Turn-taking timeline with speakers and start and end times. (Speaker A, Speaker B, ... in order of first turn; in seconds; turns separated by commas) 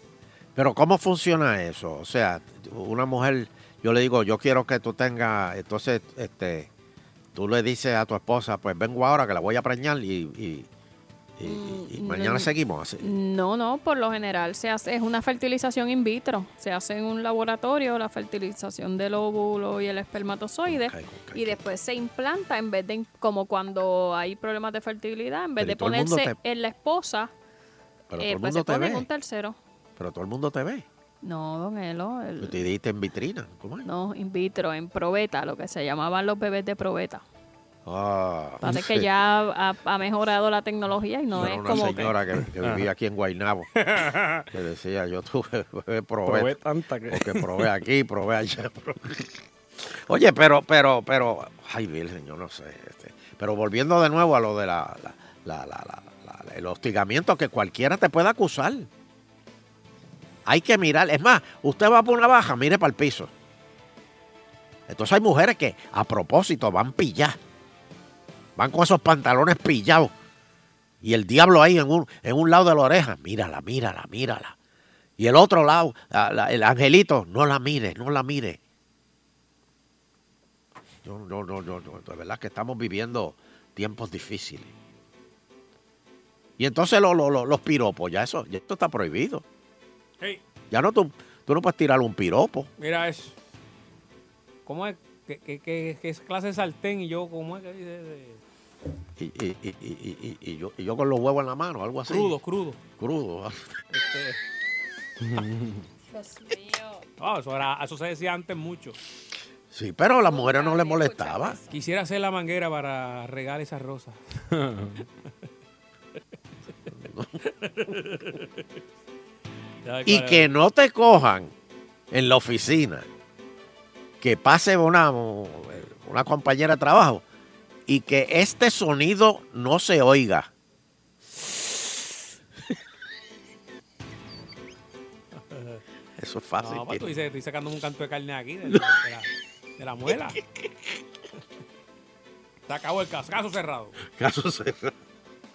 Speaker A: 0.6-6.7, Speaker A: 7.3-10.7, Speaker A: 11.4-13.1, Speaker B: 11.4-27.3, Speaker A: 20.7-21.6, Speaker A: 25.6-26.4, Speaker A: 28.1-29.1, Speaker B: 28.2-29.6, Speaker A: 30.0-30.9, Speaker B: 31.2-32.6, Speaker A: 32.4-33.9, Speaker B: 33.8-37.2, Speaker A: 37.9-39.1, Speaker B: 38.6-42.1, Speaker A: 41.3-43.7, Speaker C: 43.8-44.4, Speaker A: 44.5-46.5, Speaker C: 46.2-47.4, Speaker A: 47.1-58.9, Speaker A: 60.5-63.3, Speaker A: 64.9-67.4, Speaker A: 68.6-70.1, Speaker A: 71.0-74.5, Speaker A: 75.2-78.6, Speaker A: 81.0-84.7, Speaker A: 86.6-89.4, Speaker A: 90.7-92.7, Speaker D: 92.8-93.3, Speaker D: 94.7-98.4, Speaker A: 99.2-102.3, Speaker D: 102.1-102.8, Speaker A: 103.0-103.7, Speaker D: 103.9-104.4, Speaker C: 105.2-105.8, Speaker B: 106.1-107.0, Speaker D: 107.2-109.0, Speaker A: 109.7-111.6, Speaker B: 110.2-111.7, Speaker D: 111.7-114.2, Speaker C: 114.5-115.0, Speaker A: 117.0-117.3, Speaker D: 117.4-118.6, Speaker D: 119.8-120.5, Speaker A: 120.0-121.5, Speaker A: 122.1-123.0, Speaker A: 124.2-127.2, Speaker A: 127.9-130.5, Speaker D: 135.4-135.8, Speaker A: 136.2-137.1, Speaker D: 136.6-140.4, Speaker D: 142.7-144.0, Speaker A: 144.1-144.9